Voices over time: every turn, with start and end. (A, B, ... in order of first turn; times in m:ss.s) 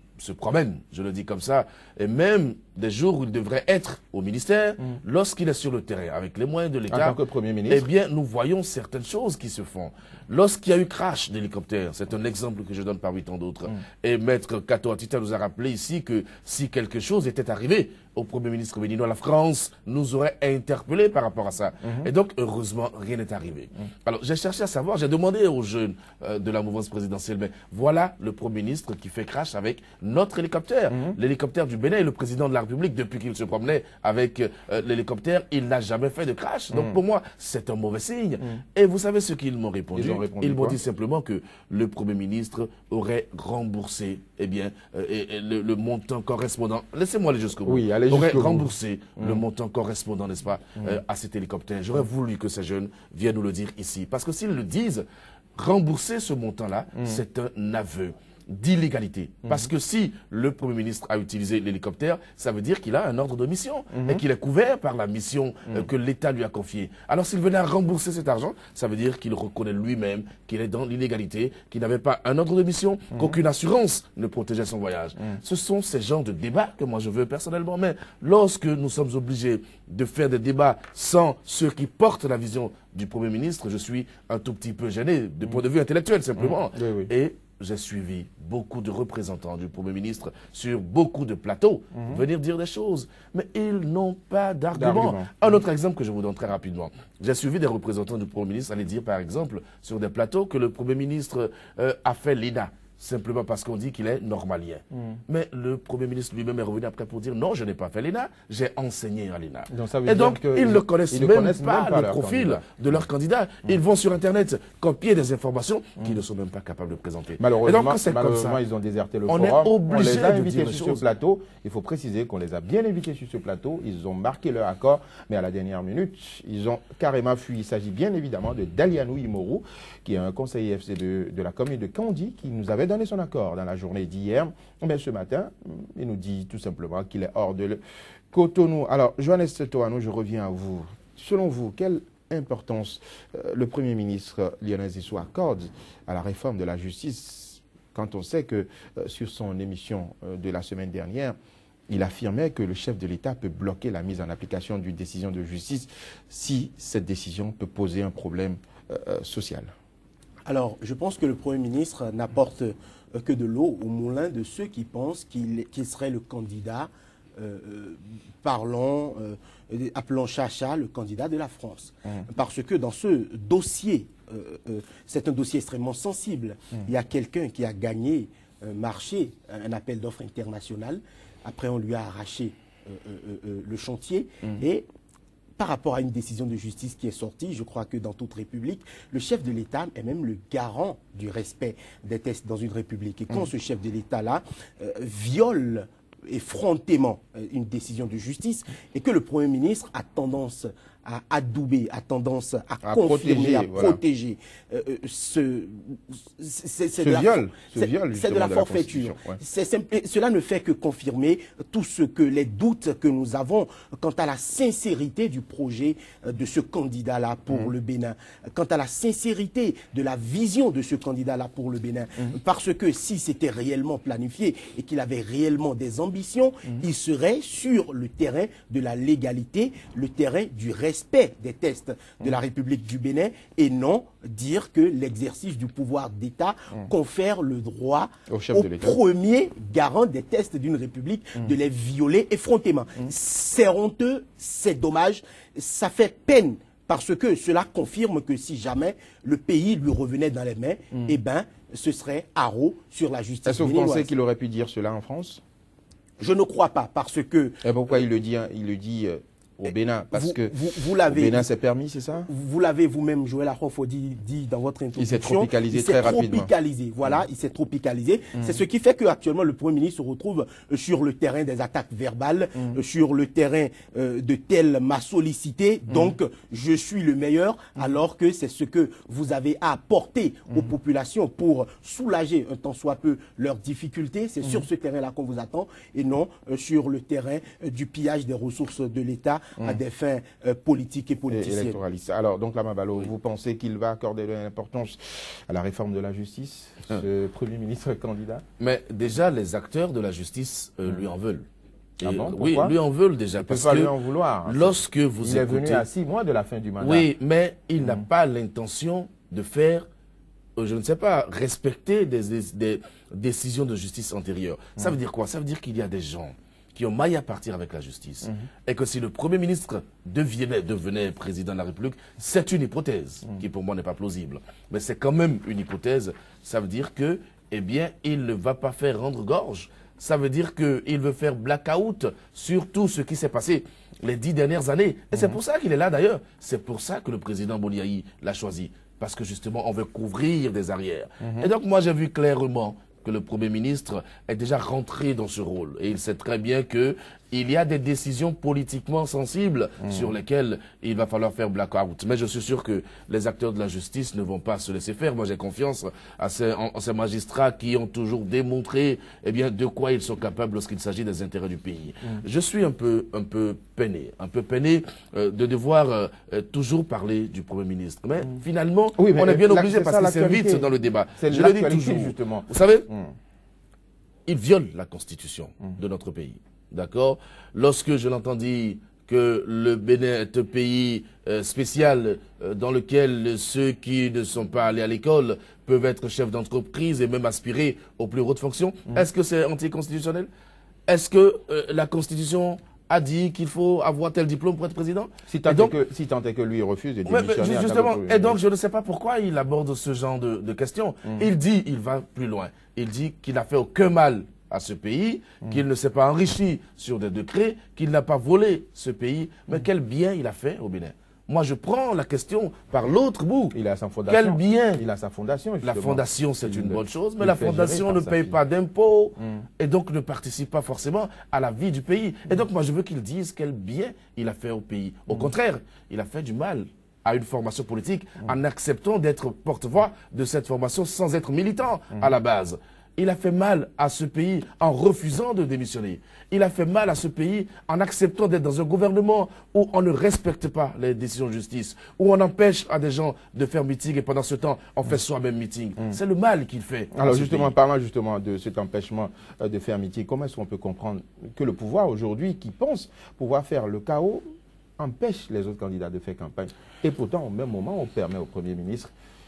0:00.2-1:58.6 A
0:06.9-0:07.9 B
0:30.9-0:31.2 B
0:39.9-0:40.8 B
0:47.6-0:49.4 B
1:03.9-1:04.2 B
1:26.4-1:27.1 B
1:32.0-1:32.2 B
1:34.7-1:35.3 B
1:44.9-1:45.2 B
1:49.7-1:52.6 B
1:57.4-2:17.8 B
1:59.3-2:01.0 A
2:18.3-2:31.4 B
2:31.9-2:39.7 B
2:40.4-3:04.8 C
3:05.6-4:14.1 C
3:22.8-3:24.0 B
3:27.0-3:29.4 B
3:58.3-3:59.0 B
4:13.4-4:15.4 B
4:16.2-4:17.7 C
4:17.6-4:22.3 B
4:20.1-4:21.4 C
4:22.3-4:51.8 C
4:25.0-4:26.5 B
4:51.3-4:58.4 B
4:58.6-5:01.4 A
5:02.0-5:02.8 B
5:02.0-5:03.9 A
5:03.4-5:07.1 B
5:04.4-5:05.8 A
5:06.8-5:09.8 A
5:10.6-6:12.9 A
5:41.2-5:41.5 B
6:09.0-6:13.1 B
6:14.3-6:30.3 A
6:30.9-6:35.8 A
6:35.3-6:38.4 B
6:37.0-6:54.8 A
6:53.5-6:58.4 B
6:55.6-7:27.5 A
7:26.9-7:34.2 B
7:34.8-7:38.9 B